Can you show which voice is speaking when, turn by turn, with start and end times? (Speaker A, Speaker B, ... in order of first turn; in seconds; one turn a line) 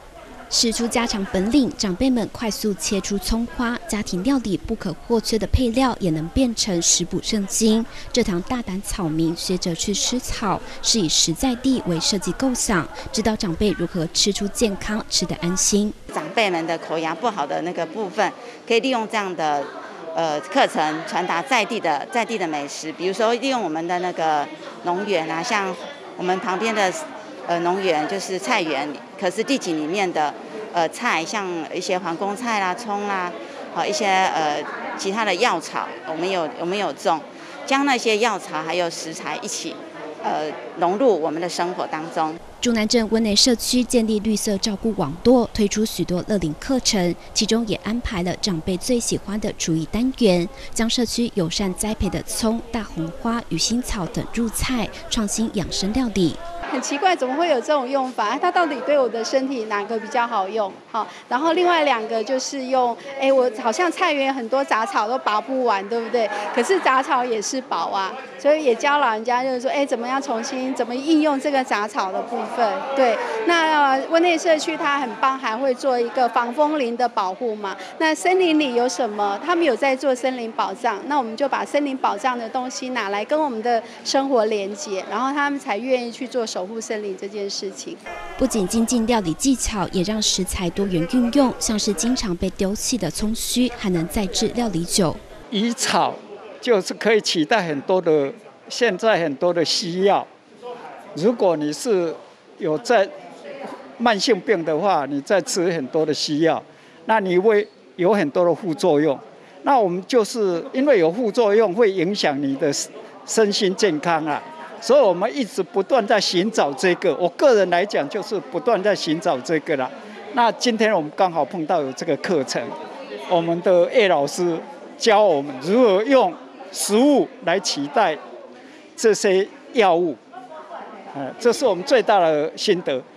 Speaker A: 0.5-15.9
Speaker B: 16.1-42.4
Speaker A: 42.6-56.4
Speaker C: 56.7-88.0
Speaker A: 88.4-95.2
Speaker D: 95.5-100.3
Speaker D: 101.2-103.1
Speaker D: 104.0-122.7
Speaker D: 123.3-128.2
Speaker D: 129.0-130.2
Speaker D: 131.1-133.0